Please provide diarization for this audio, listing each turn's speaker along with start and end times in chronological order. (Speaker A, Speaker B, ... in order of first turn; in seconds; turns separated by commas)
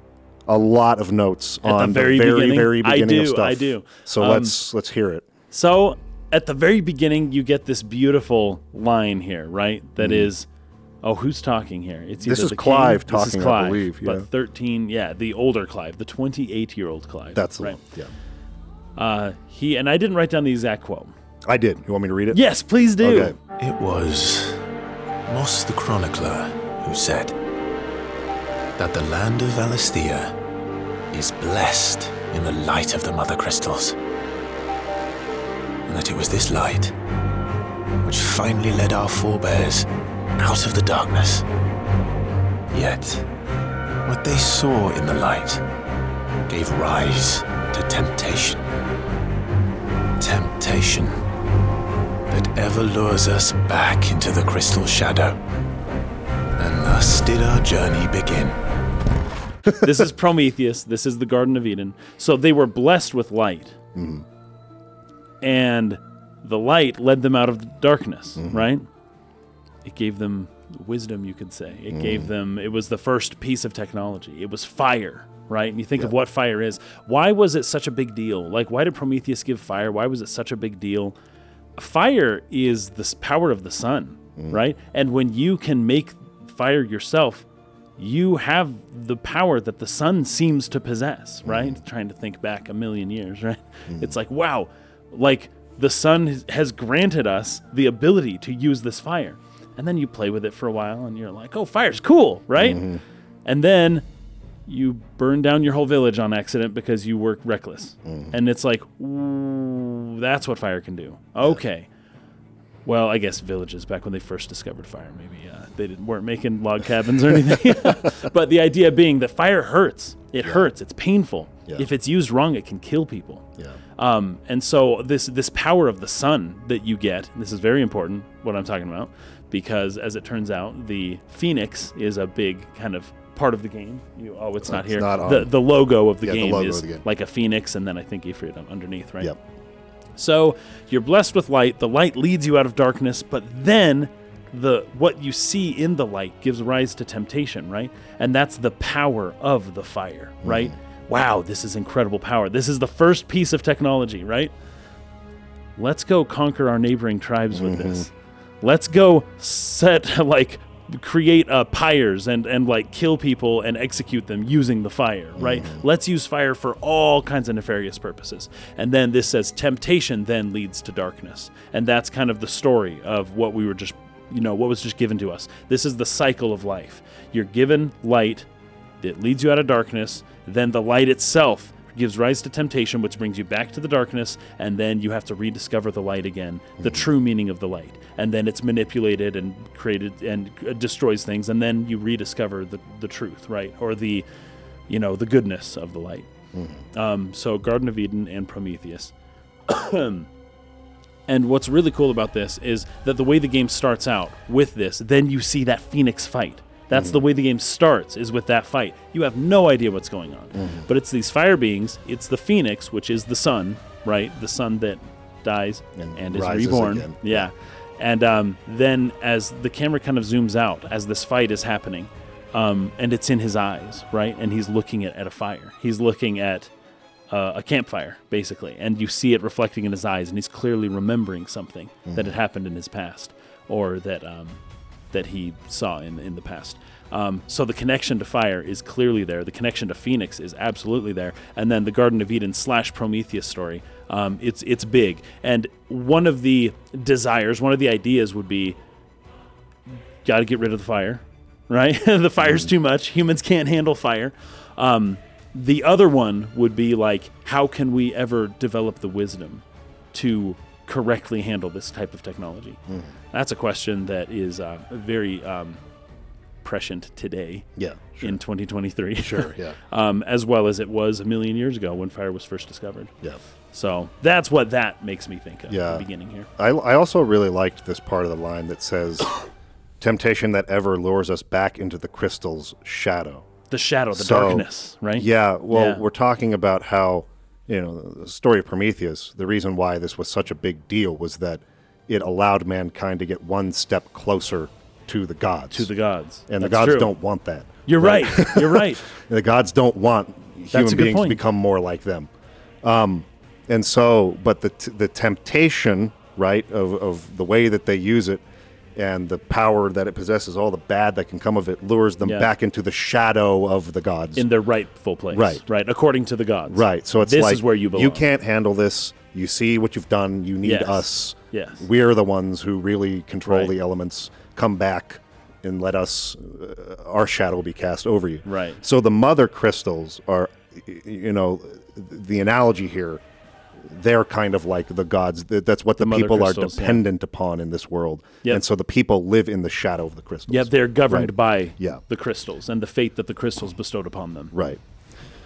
Speaker A: 0.5-5.2, Speaker B: 1.6-4.5, Speaker B: 5.5-10.4, Speaker A: 10.0-10.3, Speaker B: 11.0-17.8, Speaker A: 12.2-14.2, Speaker A: 17.3-18.1, Speaker B: 18.9-21.1, Speaker A: 21.5-22.4, Speaker B: 22.3-23.3, Speaker A: 23.0-23.4, Speaker C: 23.6-24.6, Speaker C: 25.3-27.3, Speaker C: 28.8-30.3, Speaker C: 31.1-34.0, Speaker C: 35.9-36.9, Speaker C: 38.0-41.5, Speaker C: 42.7-43.2, Speaker C: 44.0-45.6, Speaker C: 46.5-48.7, Speaker C: 50.2-51.2, Speaker C: 52.3-55.4, Speaker C: 56.6-58.5, Speaker B: 59.7-63.8, Speaker A: 63.9-64.2, Speaker B: 65.4-68.8, Speaker B: 69.8-81.1, Speaker A: 71.9-72.2, Speaker B: 81.8-87.4, Speaker B: 88.0-102.8, Speaker A: 91.4-91.8, Speaker A: 102.6-103.0, Speaker B: 103.4-104.0, Speaker B: 104.7-111.9, Speaker A: 108.0-108.3, Speaker B: 112.8-123.4, Speaker B: 124.0-139.3, Speaker A: 134.6-135.5, Speaker A: 136.2-137.0, Speaker B: 140.2-154.5, Speaker A: 150.4-150.7, Speaker B: 155.8-158.1, Speaker A: 157.5-158.1, Speaker B: 158.6-178.4, Speaker A: 165.4-165.8, Speaker B: 179.0-194.2, Speaker A: 186.8-187.1, Speaker B: 194.9-196.3, Speaker A: 196.5-196.8, Speaker B: 196.9-199.1, Speaker B: 199.7-200.3, Speaker B: 201.3-226.7, Speaker A: 206.9-207.2, Speaker A: 210.5-210.9, Speaker A: 216.0-217.5, Speaker B: 227.3-234.6, Speaker B: 235.1-248.8, Speaker B: 250.2-262.8, Speaker A: 252.4-252.7, Speaker B: 263.3-265.8, Speaker B: 266.6-267.7, Speaker A: 267.8-268.4, Speaker B: 268.2-273.1, Speaker A: 269.2-269.8, Speaker B: 273.7-276.5, Speaker A: 275.7-276.0, Speaker A: 276.6-279.3, Speaker A: 280.0-283.5, Speaker B: 283.7-286.0, Speaker A: 284.1-295.9, Speaker B: 295.7-297.1, Speaker A: 296.5-302.3, Speaker B: 297.9-299.1, Speaker B: 300.7-301.4, Speaker A: 302.8-308.4, Speaker A: 308.9-314.4, Speaker B: 314.4-318.2, Speaker A: 315.3-315.6, Speaker A: 316.7-333.2, Speaker B: 320.6-321.8, Speaker B: 328.4-328.8, Speaker A: 333.9-342.0, Speaker B: 336.0-337.0, Speaker B: 340.5-344.5, Speaker A: 344.5-344.8